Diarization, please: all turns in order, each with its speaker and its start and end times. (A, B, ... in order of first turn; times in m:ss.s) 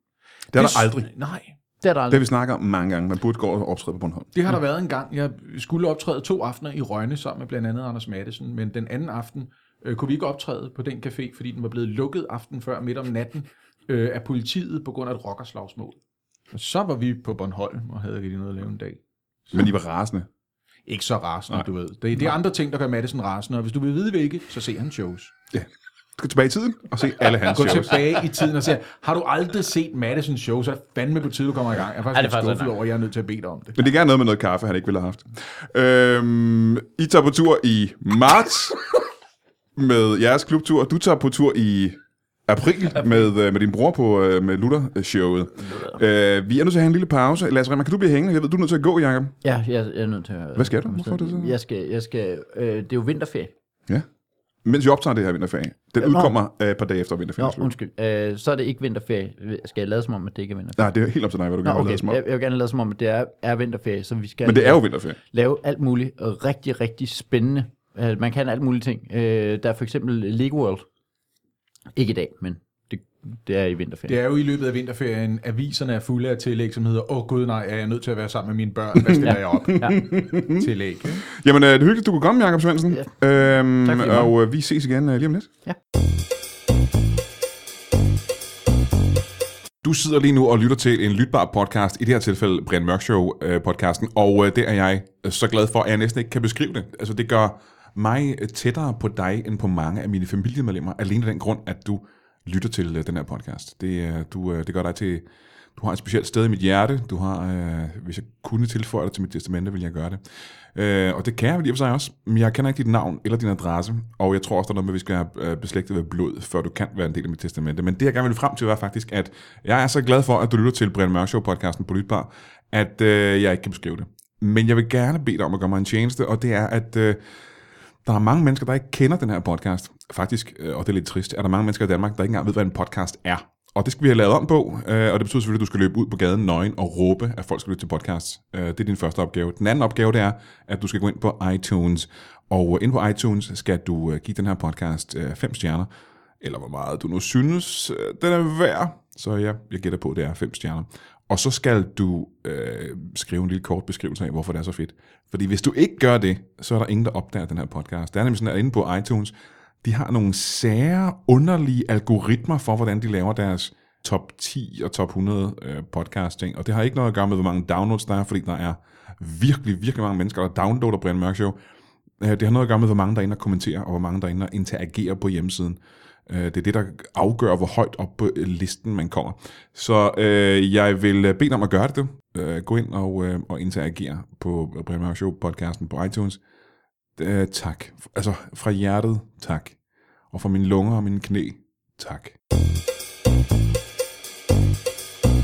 0:00.5-0:01.1 A
0:00.5-0:01.6 B
0:01.8-0:02.2 C
0:02.1-0:04.3 A
0:04.3-0:16.0 B
0:16.5-0:19.7 B
0:19.5-0:20.3 A
0:20.9-0:25.3 B
0:25.5-0:28.1 A
0:27.5-0:33.8 B
0:32.1-0:32.8 C
0:33.8-0:38.8 A
0:39.8-0:49.3 A
0:49.4-0:53.5 C
0:50.6-0:51.6 A
0:54.6-0:57.7 A
0:56.0-0:56.3 C
0:57.4-1:00.9 C
1:00.8-1:02.2 A
1:01.6-1:10.8 C
1:04.4-1:05.2 A
1:11.9-1:14.2 C
1:14.1-1:21.2 B
1:19.1-1:20.6 A
1:19.2-1:20.0 C
1:21.3-1:25.5 A
1:23.8-1:24.3 C
1:29.8-1:45.2 A
1:45.8-1:50.2 A
1:50.7-2:07.2 A
2:08.0-2:25.9 A
2:26.4-2:51.6 A
2:52.2-3:06.4 A
3:07.2-3:09.8 A
3:10.3-3:12.4 A